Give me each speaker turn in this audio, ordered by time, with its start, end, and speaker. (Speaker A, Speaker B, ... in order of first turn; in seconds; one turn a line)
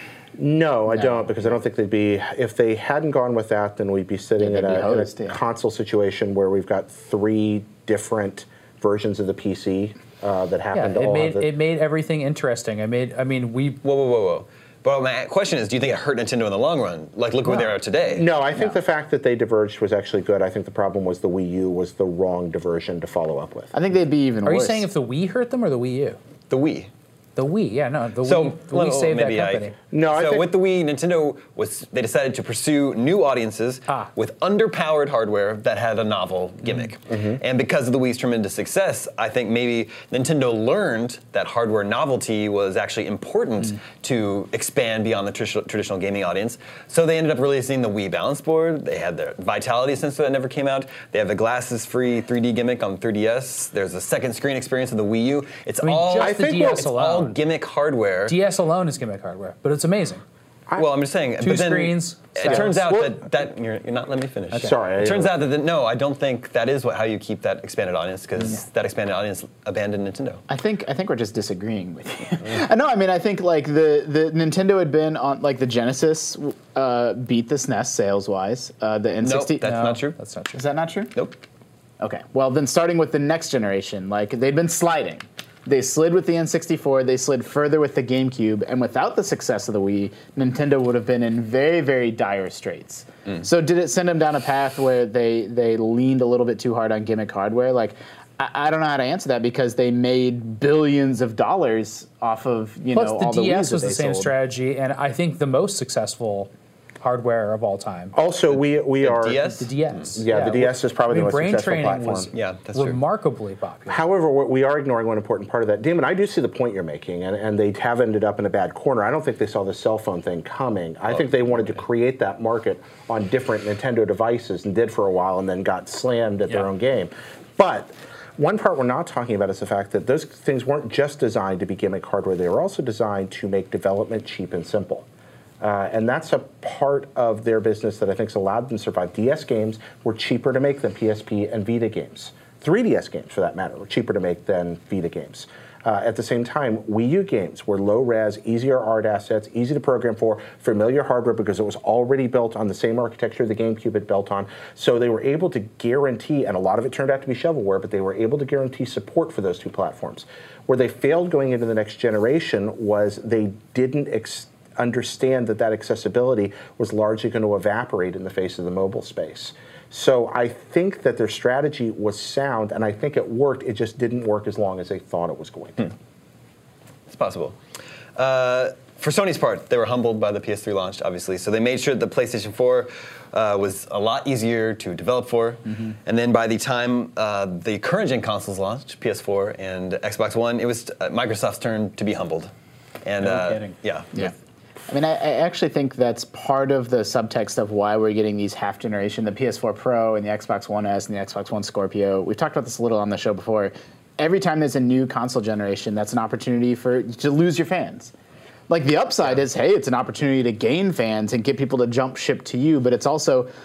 Speaker A: 0.4-11.5
Speaker B: 0.9-1.4
Speaker B: 4.4-5.4
Speaker C: 10.7-13.8
Speaker D: 13.8-18.2
Speaker A: 18.1-23.7
Speaker B: 23.7-24.9
Speaker C: 24.4-26.2
Speaker D: 26.5-26.9
Speaker C: 27.4-29.7
Speaker D: 28.2-58.4
Speaker A: 29.9-30.5
Speaker C: 36.6-36.9
Speaker A: 37.1-37.4
Speaker C: 55.8-57.3
Speaker A: 56.1-56.9
Speaker C: 58.3-60.2
Speaker D: 60.8-70.4
Speaker C: 61.4-62.8
Speaker A: 62.5-63.2
Speaker A: 64.6-65.4
Speaker B: 70.5-79.8
Speaker D: 79.2-80.2
Speaker C: 79.6-80.6
Speaker B: 80.5-81.1
Speaker D: 81.1-81.4
Speaker B: 82.0-104.3
Speaker C: 102.9-106.5
Speaker C: 107.0-108.1
Speaker A: 108.1-109.4
Speaker D: 109.0-110.1
Speaker C: 109.6-114.0
Speaker A: 110.2-112.3
Speaker D: 112.3-113.0
Speaker A: 113.9-135.1
Speaker D: 121.1-121.6
Speaker A: 135.6-175.9
Speaker D: 177.1-177.6
Speaker D: 178.2-192.5
Speaker D: 193.0-194.1
Speaker C: 193.2-194.2
Speaker B: 194.9-208.1
Speaker B: 208.7-213.5